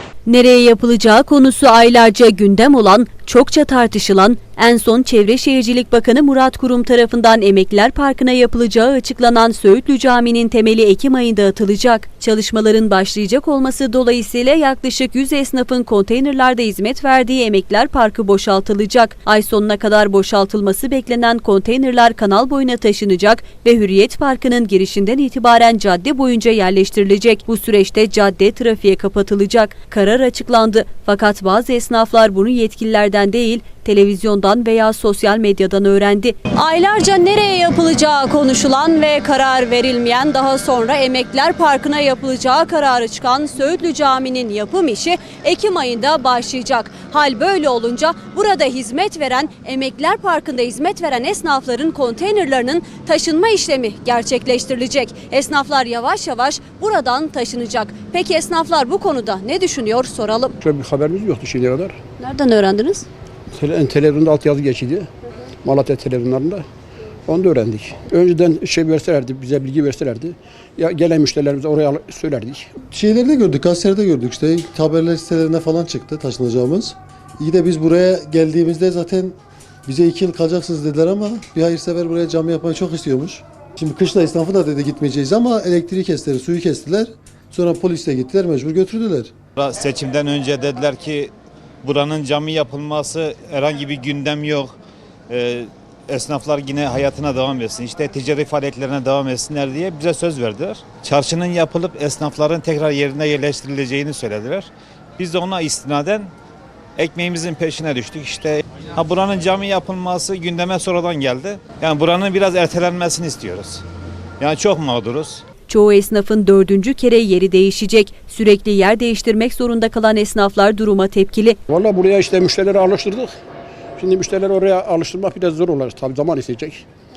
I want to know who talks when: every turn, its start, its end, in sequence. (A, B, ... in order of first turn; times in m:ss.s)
0:00.2-1:00.6 A
1:00.6-1:02.0 B
1:02.2-1:03.0 A
1:03.5-1:05.1 B
1:05.6-1:06.6 B
1:07.3-1:12.7 B
1:12.9-1:29.3 C
1:29.6-1:31.3 D
1:31.8-1:34.7 D
1:35.3-1:46.3 D
1:47.0-1:53.8 D
1:54.4-1:55.4 D
1:55.7-2:01.6 A
2:01.7-2:03.3 B
2:04.0-2:06.8 B